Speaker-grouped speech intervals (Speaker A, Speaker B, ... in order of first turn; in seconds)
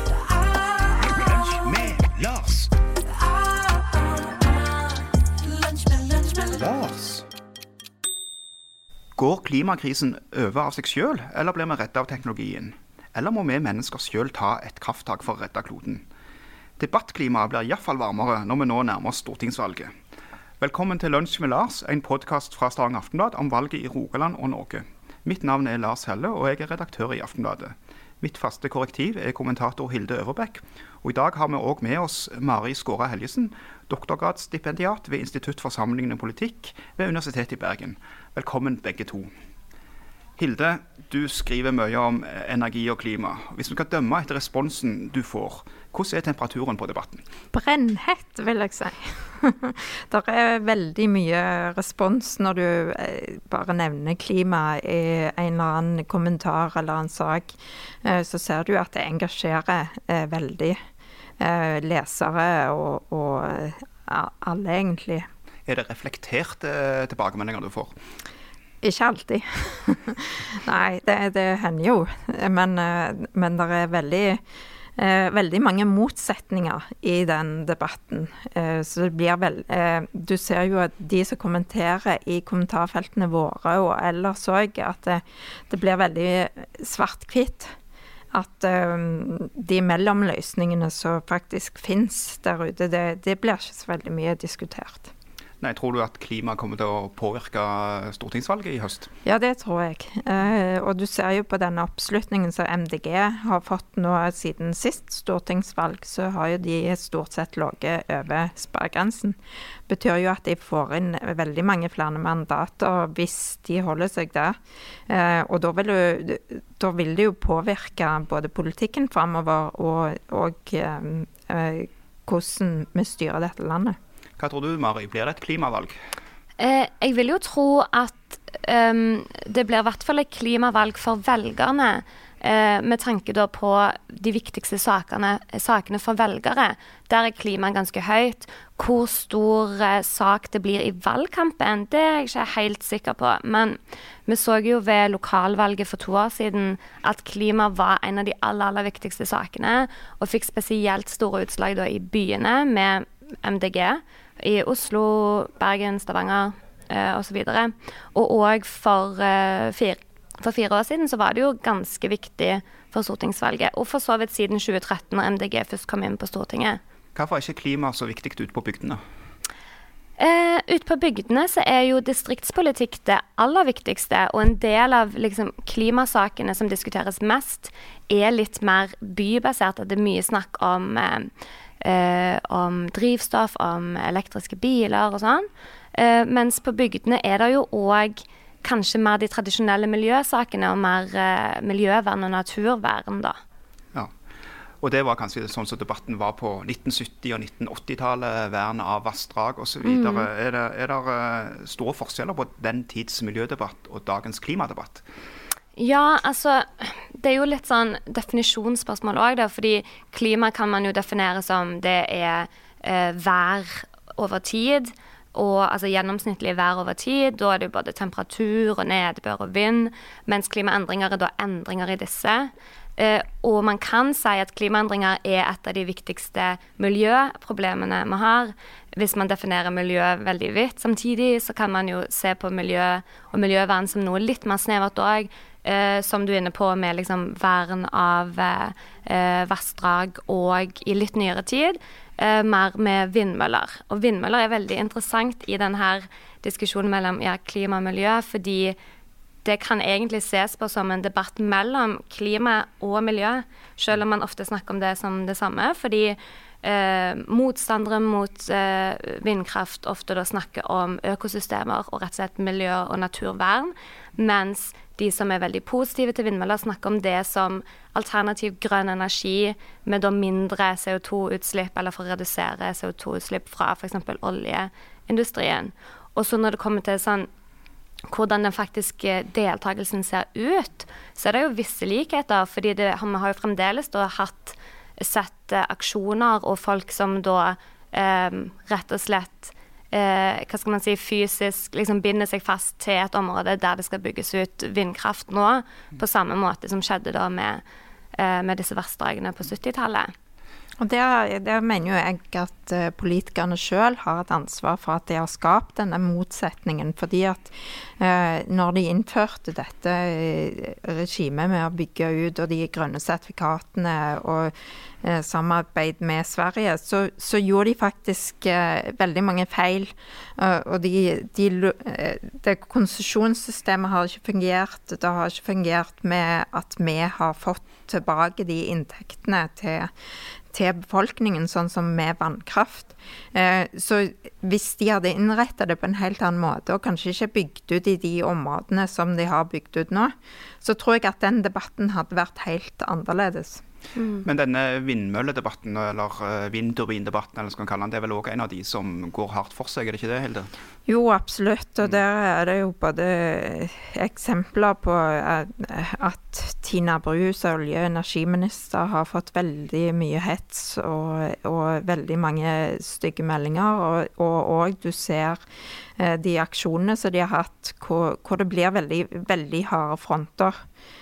Speaker A: 0.7-2.7, 6.1-7.3, 9.2-16.0, 16.8-19.9, 20.6-39.3, 40.4-47.2, 65.7-67.9, 95.6-99.1, 124.4-126.0, 167.1-169.0, 194.8-205.0, 344.2-350.5
Speaker B: 47.5-60.8, 61.4-65.2, 68.8-74.4, 75.0-87.7, 88.3-95.1, 99.2-109.3, 109.9-114.6, 115.1-124.0, 300.8-329.9, 330.5-343.6, 350.9-365.4, 366.0-370.6
Speaker C: 126.6-166.8, 170.2-193.4, 199.8-200.3, 205.8-248.8, 249.4-277.3, 278.1-297.6, 298.1-300.1, 343.9-344.2